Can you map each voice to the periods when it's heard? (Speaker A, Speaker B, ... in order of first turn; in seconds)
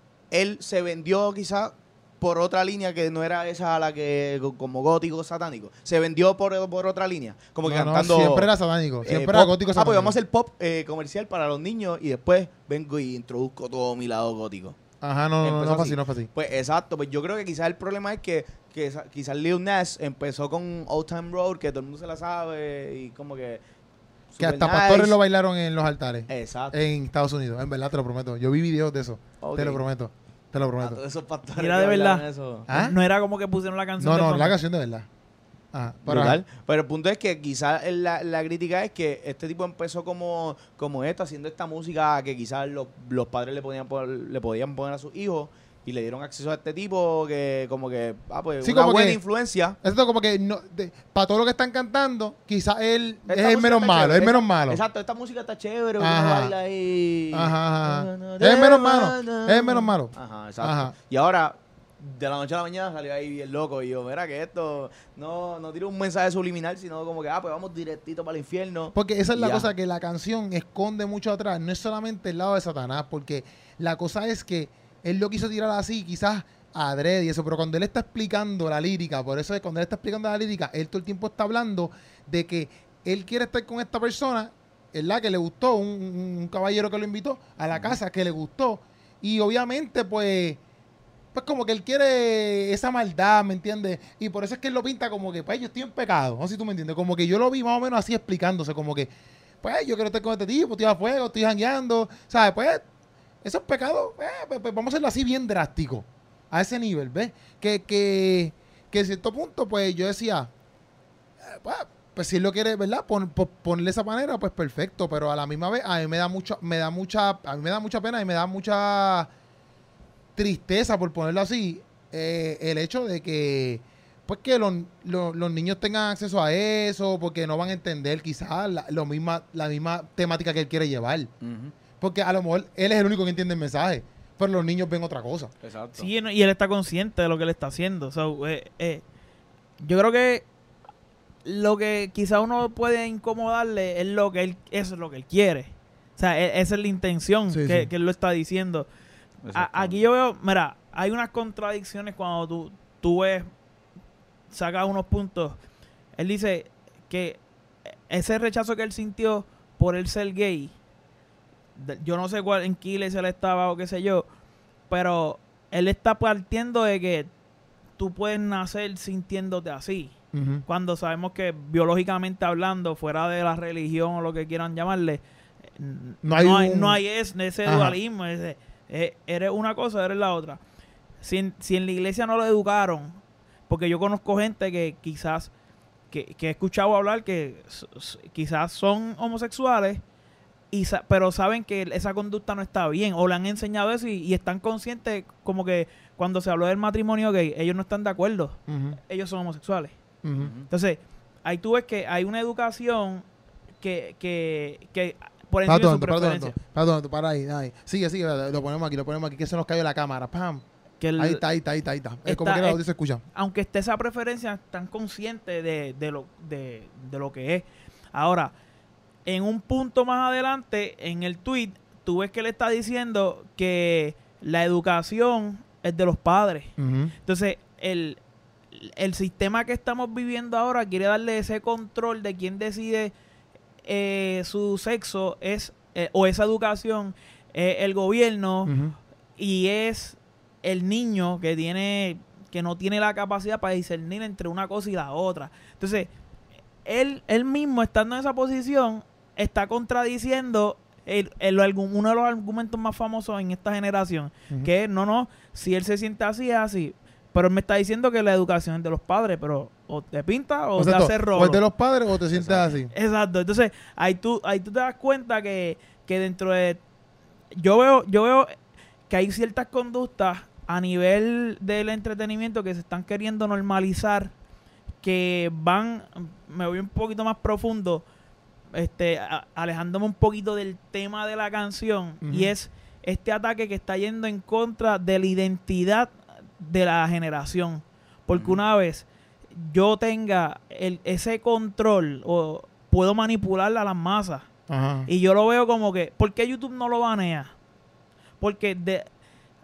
Speaker A: 0.3-8.5, 9.0-14.8, 15.4-23.6, 24.3-25.1, 26.3-26.7, 29.4-29.8, 30.8-32.6, 36.0-49.8, 53.3-69.7, 87.7-88.0, 131.4-131.7, 135.6-136.1, 149.4-150.0, 200.4-200.7, 262.3-262.7, 288.3-288.6
Speaker B: 7.7-10.1, 15.0-16.3, 24.4-31.0, 32.7-33.0, 34.0-35.1, 35.7-36.4, 48.6-49.2, 49.8-54.8, 56.0-56.5, 57.3-60.9, 68.9-90.6, 91.3-99.1, 99.6-102.8, 103.4-110.5, 111.5-119.3, 120.3-131.3, 132.0-135.5, 147.5-147.9, 170.3-170.6, 176.2-177.0, 177.6-178.0, 198.7-199.0, 200.2-200.5, 205.7-210.6, 211.2-213.2, 226.8-227.1, 238.7-238.9, 260.8-262.9, 282.2-282.5, 294.7-295.1
Speaker C: 31.6-34.5, 135.9-139.0, 139.8-140.4, 141.4-148.9, 149.5-153.5, 154.5-155.6, 156.2-157.4, 158.1-160.7, 161.8-164.2, 164.9-167.3, 168.0-170.1, 170.7-175.2, 175.8-180.6, 181.2-185.5, 186.1-190.0, 190.7-199.9, 200.7-203.2, 203.8-206.6, 211.0-211.4, 212.2-212.8, 213.3-218.5, 219.2-226.7, 227.2-228.2, 228.7-233.1, 233.8-238.7, 239.4-246.1, 246.8-261.6, 262.9-266.8, 267.6-268.5, 269.1-274.3, 275.0-278.0, 278.7-294.5, 295.1-297.5, 298.4-299.1